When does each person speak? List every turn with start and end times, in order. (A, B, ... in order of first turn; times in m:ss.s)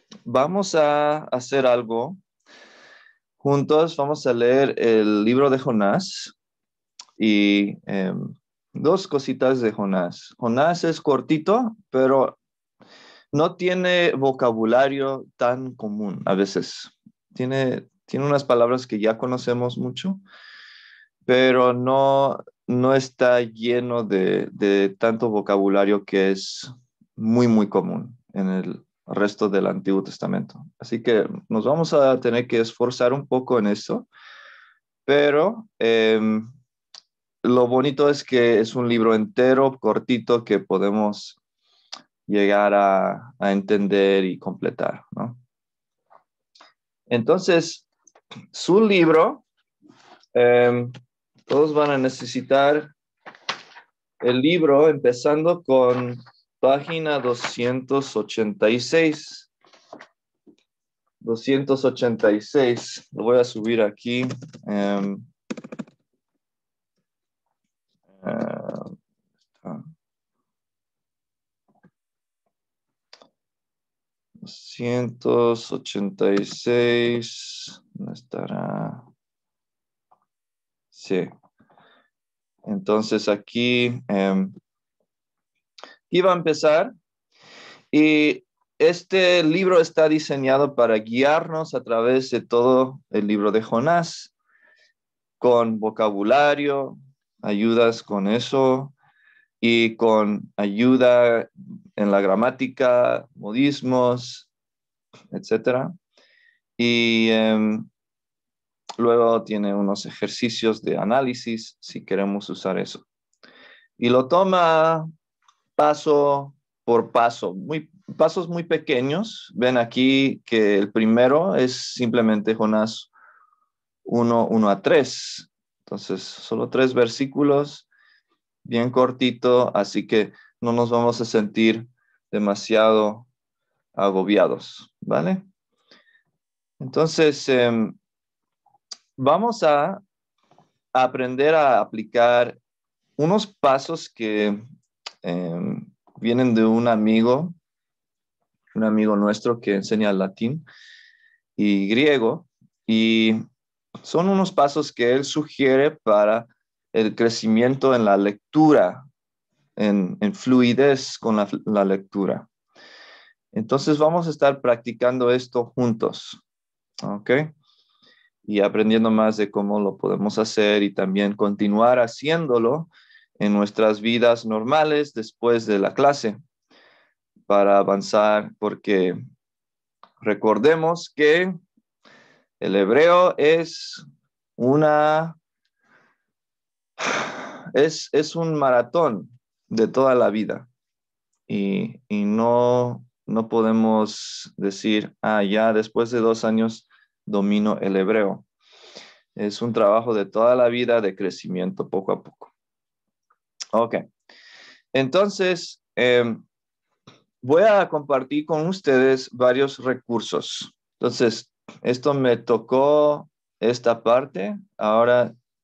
0:00.3-0:02.2 A
0:03.4-0:06.3 A
0:07.2-0:12.4 A
0:13.3-0:20.2 A
0:21.3-0:34.1 A
0:35.1-0:36.5 A
0:37.4-0:41.4 A
0:42.3-0:45.4 A
0:47.1-0:47.9 A
0:48.5-0:49.4 A
0:50.4-0:50.9 A
0:51.5-0:52.9 A
0:54.2-0:59.5 A
1:01.2-1:05.3 A
1:08.2-1:09.0 A
1:14.4-1:19.0 A
1:20.9-1:21.3 A
1:22.7-1:24.5 A
1:26.1-1:26.9 A
1:27.9-1:34.3 A
1:35.4-1:38.9 A
1:39.6-1:44.5 A
1:45.3-1:45.9 A
1:46.8-1:47.9 A
1:49.0-1:53.0 A
1:54.0-1:55.1 A
1:55.8-2:03.1 A
2:04.1-2:07.9 A
2:08.6-2:13.3 A
2:14.0-2:15.4 A
2:16.8-2:18.0 A
2:19.2-2:20.0 A
2:20.9-2:22.6 A
2:23.2-2:24.6 A
2:25.2-2:27.6 A
2:28.7-2:30.6 A
2:31.6-2:33.4 A
2:34.0-2:39.0 A
2:39.8-2:42.5 A
2:43.5-2:46.4 A
2:47.0-2:47.5 A
2:48.5-2:56.4 A
2:57.5-2:59.2 A
3:00.2-3:01.5 A
3:02.6-3:04.0 A
3:04.6-3:05.4 A
3:07.1-3:10.7 A
3:11.5-3:18.4 A
3:19.4-3:22.5 A
3:23.7-3:24.0 A
3:24.9-3:26.4 A
3:27.4-3:35.3 A